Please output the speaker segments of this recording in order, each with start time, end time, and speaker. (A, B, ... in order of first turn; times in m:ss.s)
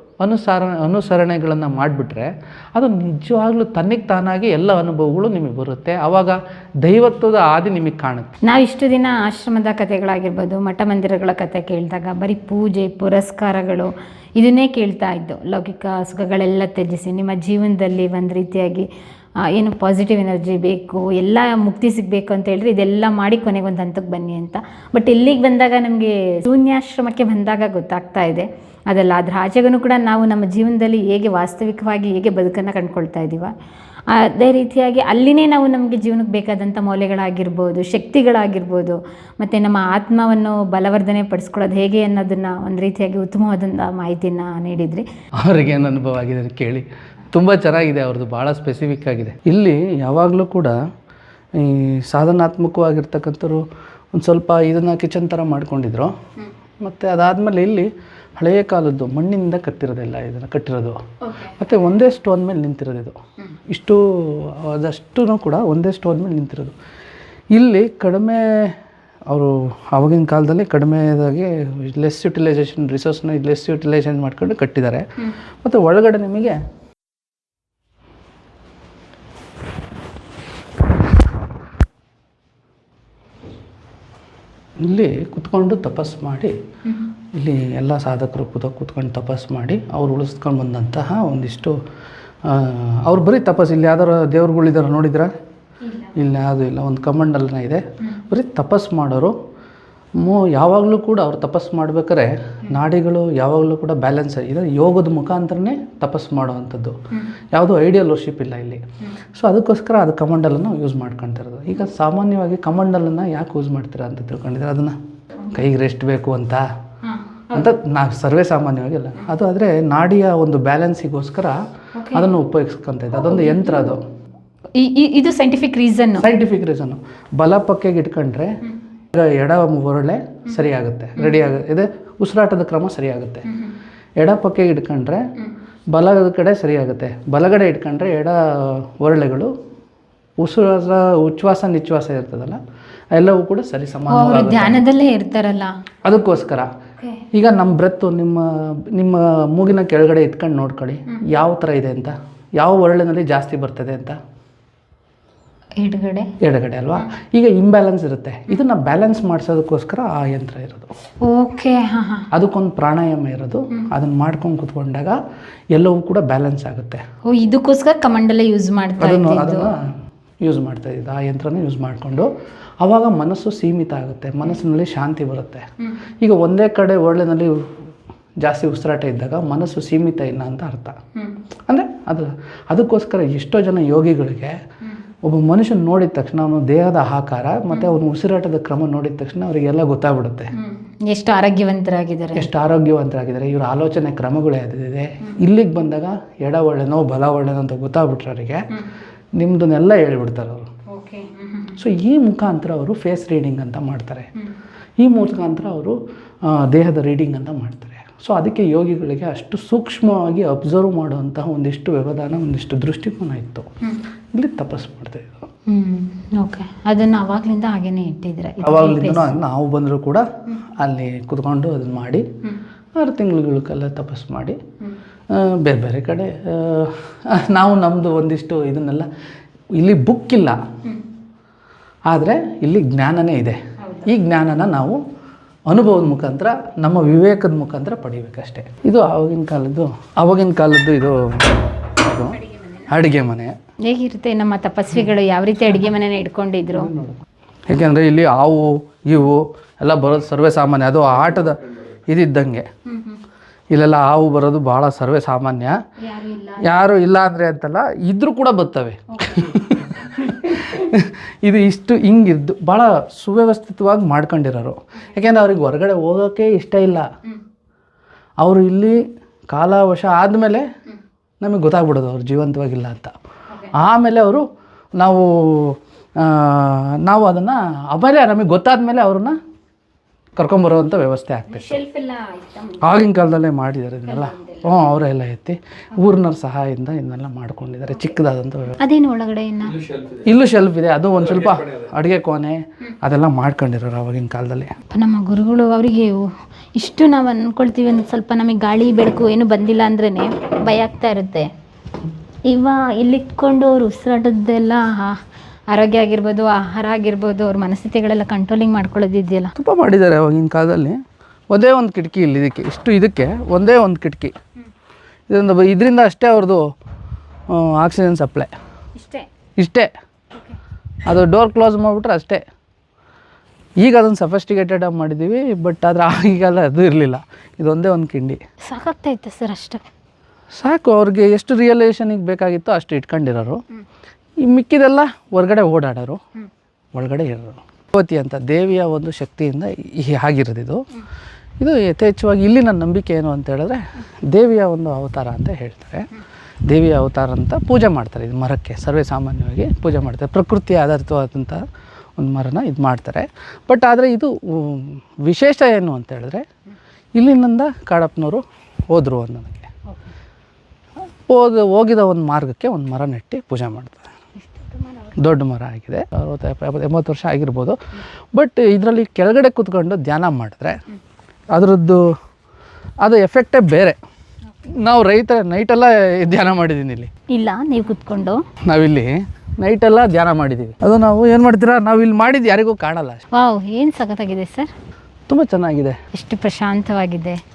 0:00.2-0:08.3 A
0:08.4-0:18.9 B
0:19.4-0:33.5 B
0:34.1-0:45.1 B
0:45.4-0:50.8 A
0:51.6-0:56.1 A
0:56.8-1:06.7 A
1:07.5-1:16.6 A
1:24.8-1:26.6 A
1:27.2-1:31.8 A
1:32.4-1:35.3 A
1:36.0-1:39.4 A
1:40.2-1:47.0 A
1:47.5-1:48.8 A
1:49.3-1:55.0 A
1:55.5-1:56.6 A
1:57.0-1:57.6 B
1:57.5-2:04.0 A
2:02.0-2:02.4 B
2:04.8-2:06.3 B
2:06.2-2:08.6 A
2:09.1-2:13.6 A
2:14.2-2:15.2 A
2:15.9-2:19.5 A
2:20.4-2:22.6 A
2:23.1-2:24.8 A
2:24.1-2:25.7 B
2:26.0-2:26.7 A
2:27.0-2:27.3 B
2:27.3-2:34.2 A
2:35.8-2:36.4 B
2:36.4-2:40.9 A
2:41.2-2:42.3 B
2:42.3-2:45.2 A
2:45.7-2:47.0 A
2:47.2-2:49.7 B
2:49.0-2:49.9 A
2:50.4-2:55.7 A
2:56.2-2:57.7 A
2:58.4-3:01.0 A
3:01.7-3:04.6 A
3:05.2-3:10.5 A
3:10.5-3:12.5 B
3:12.4-3:18.7 A
3:19.4-3:20.7 A
3:20.9-3:21.8 B
3:21.8-3:24.3 A
3:25.0-3:33.7 A
3:34.3-3:35.5 A
3:35.7-3:39.4 B
3:38.6-3:42.3 A
3:43.0-3:44.6 A
3:45.3-3:49.1 A
3:49.8-3:50.6 A
3:52.1-3:55.0 A
3:53.8-3:54.1 B
3:55.7-4:03.5 A
4:03.8-4:06.9 B
4:07.7-4:12.7 A
4:12.9-4:13.2 B
4:13.7-4:15.8 A
4:16.0-4:16.9 B
4:16.6-4:27.1 A
4:19.1-4:19.5 B
4:28.4-4:30.7 A
4:31.4-4:33.1 A
4:33.7-4:34.5 A
4:35.0-4:39.4 A
4:40.4-4:41.8 A
4:41.5-4:42.9 B
4:42.8-4:48.8 A
4:44.1-4:44.7 B
4:48.8-4:49.9 B
4:50.0-4:54.7 A
4:54.9-5:01.5 B
5:02.5-5:09.5 B
5:09.6-5:11.0 A
5:11.5-5:14.3 A
5:15.3-5:16.7 A
5:17.5-5:18.5 A
5:19.0-5:19.3 B
5:19.6-5:19.9 A
5:21.0-5:22.4 A
5:23.8-5:28.4 A
5:28.6-5:29.8 B
5:30.5-5:33.6 A
5:34.4-5:36.2 A
5:36.9-5:40.9 A
5:41.6-5:46.1 A
5:46.7-5:51.6 A
5:52.2-5:56.4 A
5:57.2-5:59.7 A
6:01.3-6:04.1 A
6:04.6-6:05.1 B
6:05.2-6:07.8 A
6:08.3-6:10.8 A
6:11.5-6:12.1 A
6:13.0-6:14.0 A
6:14.7-6:17.1 A
6:17.3-6:18.4 B
6:18.6-6:23.3 A
6:23.3-6:24.7 B
6:25.3-6:26.0 A
6:26.1-6:27.4 B